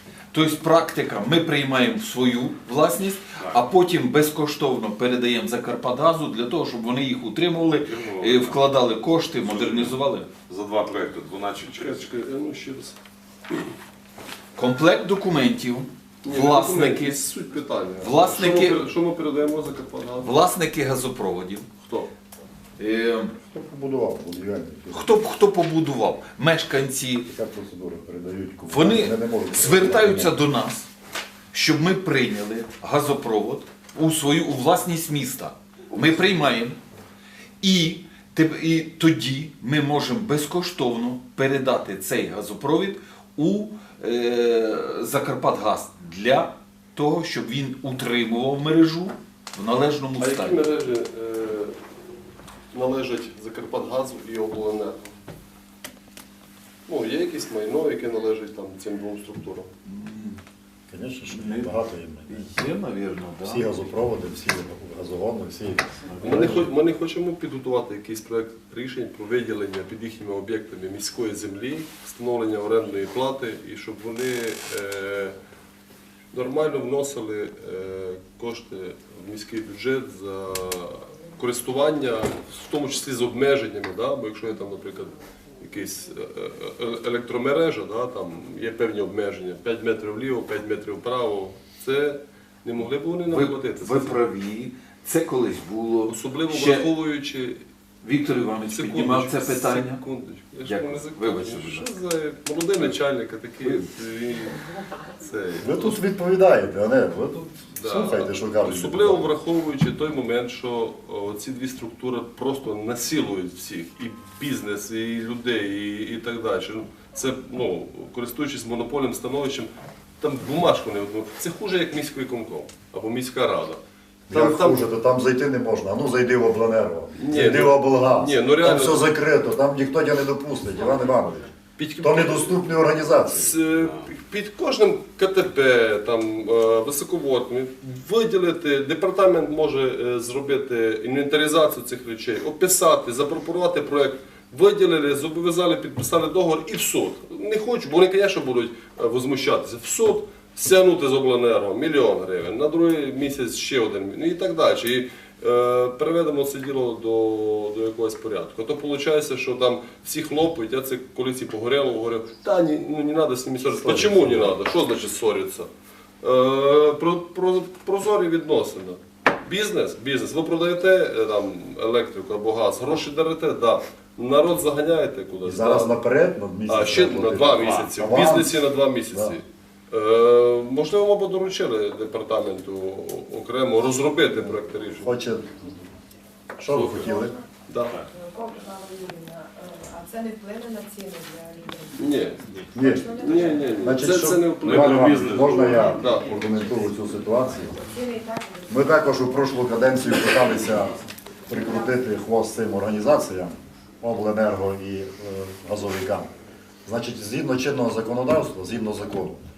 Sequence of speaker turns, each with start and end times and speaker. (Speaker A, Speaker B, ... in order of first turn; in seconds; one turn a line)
Speaker A: 0.3-10.3
Speaker B: 7.7-8.6
Speaker B: 9.4-9.9
Speaker B: 10.5-12.1
Speaker C: 11.7-12.9
Speaker A: 14.6-17.2
Speaker C: 16.2-20.3
Speaker A: 18.0-18.9
Speaker A: 20.2-21.7
Speaker C: 21.8-22.1
Speaker A: 22.8-23.3
Speaker D: 23.5-25.1
Speaker A: 24.9-27.3
Speaker D: 27.3-30.3
Speaker A: 28.7-30.9
Speaker A: 31.5-36.8
Speaker A: 37.6-50.7
Speaker C: 50.2-51.8
Speaker C: 52.7-55.1
Speaker C: 56.9-59.7
Speaker A: 59.8-60.4
Speaker D: 60.9-62.5
Speaker A: 61.3-61.7
Speaker A: 62.3-63.8
Speaker D: 63.4-66.7
Speaker A: 66.0-66.6
Speaker C: 66.2-75.3
Speaker C: 76.3-94.2
Speaker A: 93.3-96.9
Speaker C: 96.1-97.6
Speaker A: 98.0-100.0
Speaker C: 98.7-104.6
Speaker A: 100.6-101.9
Speaker C: 105.2-105.7
Speaker D: 105.6-109.3
Speaker C: 107.8-123.8
Speaker C: 124.3-124.8
Speaker D: 124.3-131.5
Speaker C: 127.2-129.1
Speaker C: 131.8-132.6
Speaker D: 132.0-133.5
Speaker C: 133.3-165.7
Speaker B: 133.7-134.1
Speaker D: 163.8-164.5
Speaker C: 166.2-175.9
Speaker D: 175.4-178.6
Speaker C: 176.7-185.1
Speaker B: 177.5-177.9
Speaker D: 179.1-179.3
Speaker D: 185.0-185.8
Speaker D: 186.6-187.3
Speaker C: 186.7-187.1
Speaker E: 187.0-187.4
Speaker C: 187.7-188.0
Speaker B: 187.8-188.6
Speaker E: 188.1-194.0
Speaker C: 191.9-192.4
Speaker D: 192.7-197.8
Speaker C: 193.1-196.4
Speaker B: 194.6-196.5
Speaker E: 197.8-200.8
Speaker D: 198.7-206.3
Speaker E: 201.6-201.9
Speaker D: 206.8-209.4